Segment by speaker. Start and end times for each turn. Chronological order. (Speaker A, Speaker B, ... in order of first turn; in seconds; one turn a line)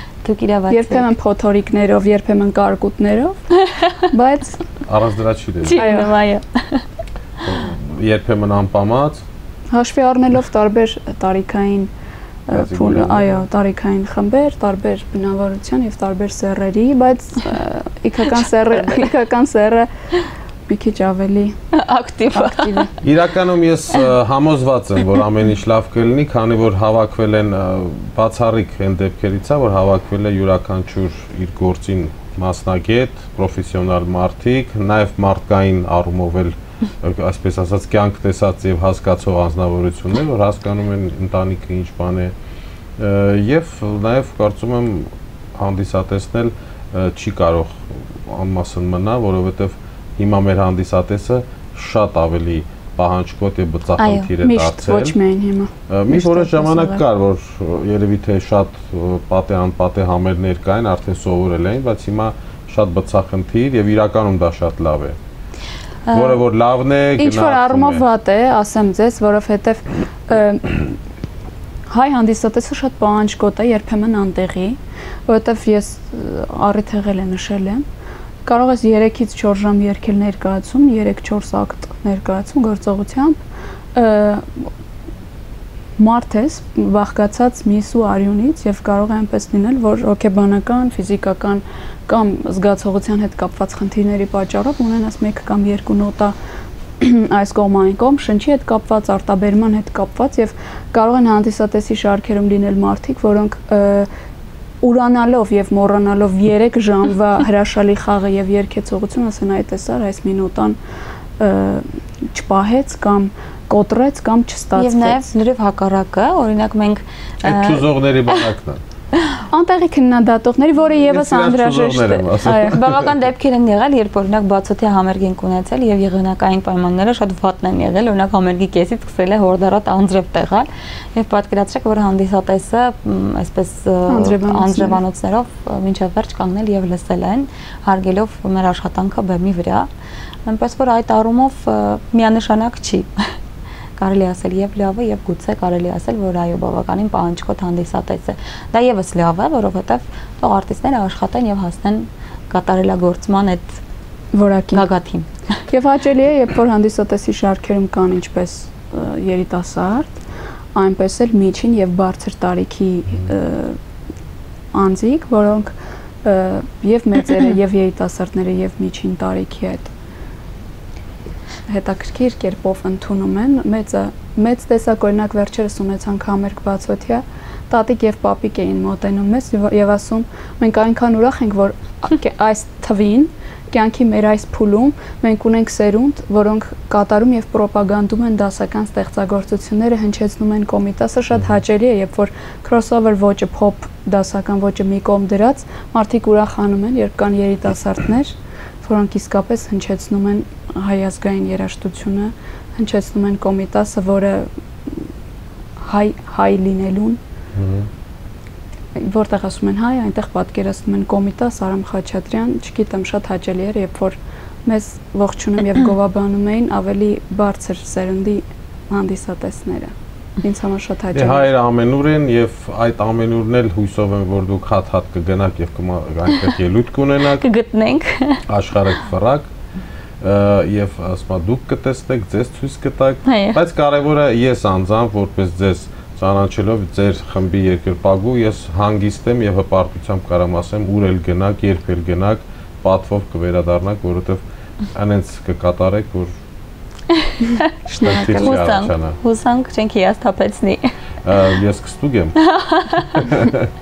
Speaker A: 0.2-1.1
Speaker B: 0.7-3.4
Speaker A: 3.7-4.0
Speaker B: 4.1-4.6
Speaker C: 4.9-5.9
Speaker A: 5.6-6.8
Speaker B: 5.8-6.2
Speaker C: 7.5-9.2
Speaker B: 9.7-11.9
Speaker B: 12.5-19.9
Speaker C: 12.5-13.4
Speaker A: 18.8-19.1
Speaker B: 20.7-21.6
Speaker A: 21.7-22.9
Speaker B: 22.4-22.9
Speaker C: 23.0-42.3
Speaker C: 43.0-55.2
Speaker A: 54.0-54.3
Speaker B: 54.4-57.0
Speaker C: 55.9-65.2
Speaker A: 66.1-66.4
Speaker C: 66.1-68.0
Speaker B: 67.2-71.0
Speaker B: 71.9-77.8
Speaker B: 78.5-83.4
Speaker B: 84.0-84.7
Speaker B: 86.0-96.3
Speaker B: 97.0-104.1
Speaker B: 104.8-110.8
Speaker B: 111.4-115.2
Speaker A: 114.8-118.4
Speaker C: 117.4-118.8
Speaker B: 119.5-122.8
Speaker C: 121.1-123.1
Speaker A: 122.6-139.9
Speaker B: 134.1-135.0
Speaker A: 140.5-143.1
Speaker A: 144.0-153.7
Speaker B: 154.3-154.9
Speaker A: 154.7-155.3
Speaker B: 155.7-160.2
Speaker B: 160.7-163.8
Speaker B: 164.7-169.9
Speaker B: 171.7-205.0
Speaker B: 205.8-207.2
Speaker C: 207.6-207.9
Speaker B: 209.0-221.5
Speaker C: 221.1-227.4
Speaker A: 227.4-228.4
Speaker C: 228.5-229.5
Speaker C: 230.2-246.3
Speaker A: 233.3-233.6
Speaker A: 247.2-247.7
Speaker B: 247.9-248.6
Speaker C: 248.0-249.2
Speaker A: 248.3-250.9
Speaker C: 251.2-252.4
Speaker A: 252.4-253.4
Speaker C: 253.1-253.7